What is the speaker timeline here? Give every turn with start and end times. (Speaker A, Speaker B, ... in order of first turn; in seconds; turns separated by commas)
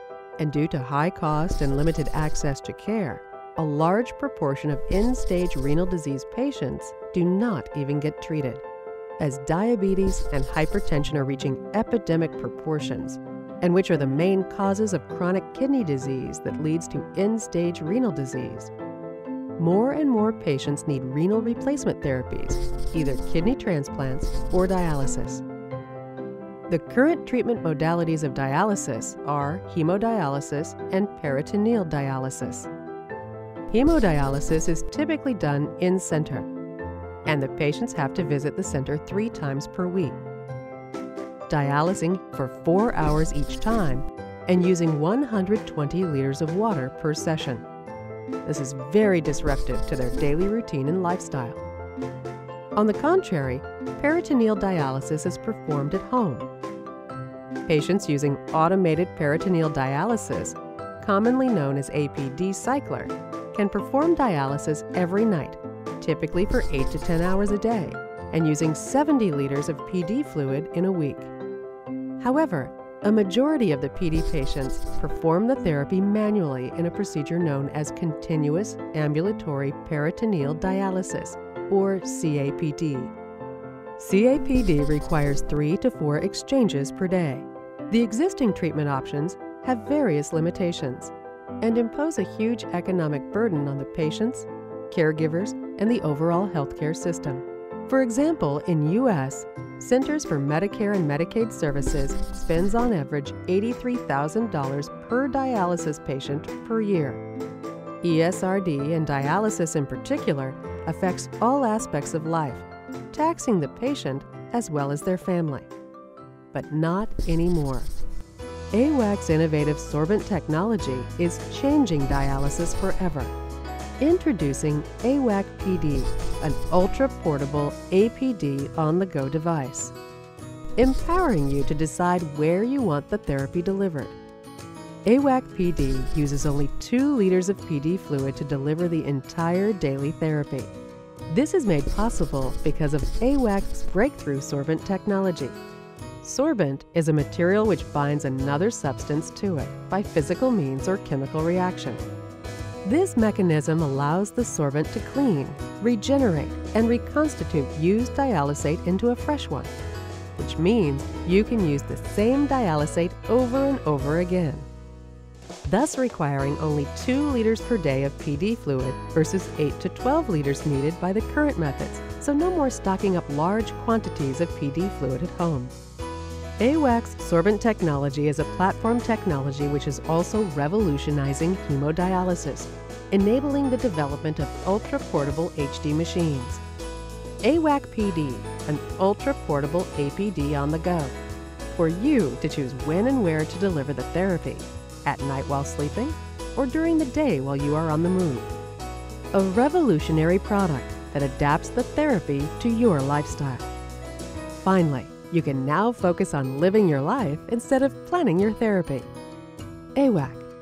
Speaker A: 0.4-8.6, Speaker A: 9.2-18.7, Speaker A: 19.6-25.4, Speaker A: 26.7-32.7, Speaker A: 33.7-36.5, Speaker A: 37.2-40.2, Speaker A: 41.5-47.6, Speaker A: 48.4-51.6, Speaker A: 52.8-56.5, Speaker A: 57.7-71.3, Speaker A: 72.2-83.1, Speaker A: 84.0-107.2, Speaker A: 108.0-115.7, Speaker A: 116.5-117.9, Speaker A: 118.7-123.3, Speaker A: 124.0-129.9, Speaker A: 130.8-134.2, Speaker A: 135.0-140.7, Speaker A: 141.3-145.6, Speaker A: 146.2-152.0, Speaker A: 152.8-159.7, Speaker A: 160.3-164.7, Speaker A: 165.6-175.7, Speaker A: 176.6-186.6, Speaker A: 187.4-191.2, Speaker A: 191.7-198.5, Speaker A: 199.3-203.7, Speaker A: 204.5-209.1, Speaker A: 209.9-210.5